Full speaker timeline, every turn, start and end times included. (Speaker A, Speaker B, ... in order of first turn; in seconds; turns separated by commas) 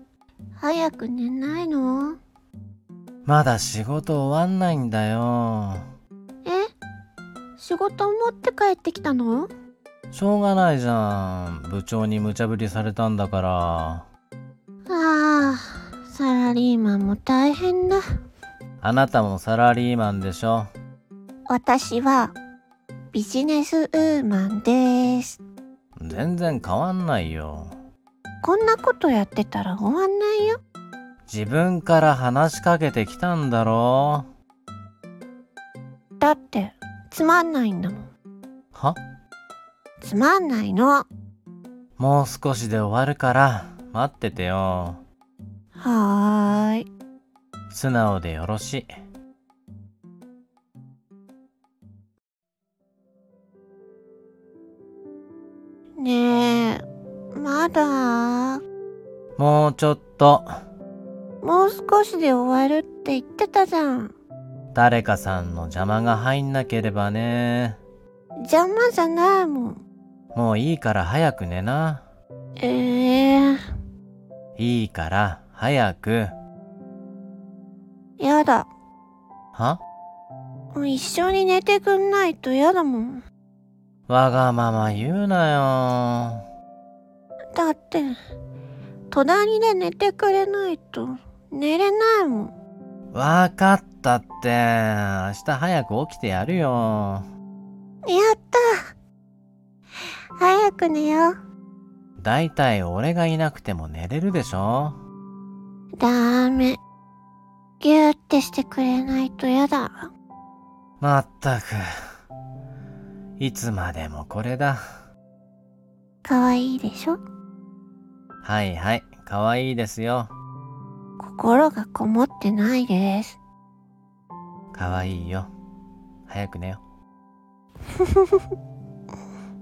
Speaker A: 0.6-2.2, Speaker B: 3.2-5.8, Speaker A: 6.4-6.7, Speaker A: 7.6-9.5, Speaker B: 10.1-14.0, Speaker A: 14.9-18.0, Speaker B: 18.8-20.7, Speaker A: 21.5-22.3, Speaker A: 23.1-25.4, Speaker B: 26.0-27.7, Speaker A: 28.4-30.6, Speaker B: 31.3-34.3, Speaker A: 36.2-38.1, Speaker B: 38.7-39.0, Speaker A: 40.0-41.0, Speaker B: 42.0-45.0, Speaker A: 45.7-46.9, Speaker B: 47.7-48.9, Speaker A: 56.0-56.8, Speaker A: 57.3-58.6, Speaker B: 59.4-60.5, Speaker A: 61.4-64.1, Speaker B: 64.7-67.8, Speaker A: 68.4-69.8, Speaker B: 70.3-72.0, Speaker A: 72.6-73.6, Speaker B: 74.6-76.3, Speaker A: 78.2-78.7, Speaker B: 79.5-79.8, Speaker A: 80.7-83.2, Speaker B: 84.1-86.4, Speaker A: 87.5-88.1, Speaker A: 89.1-92.5, Speaker B: 93.1-97.2, Speaker A: 98.0-98.8, Speaker A: 100.4-101.3, Speaker B: 102.2-105.0, Speaker A: 106.0-106.8, Speaker A: 107.8-110.1, Speaker B: 111.0-111.8, Speaker B: 113.4-114.8, Speaker A: 116.2-117.2, Speaker B: 118.4-120.3, Speaker A: 121.2-123.4, Speaker B: 124.7-125.5, Speaker B: 126.3-126.8, Speaker A: 128.0-128.5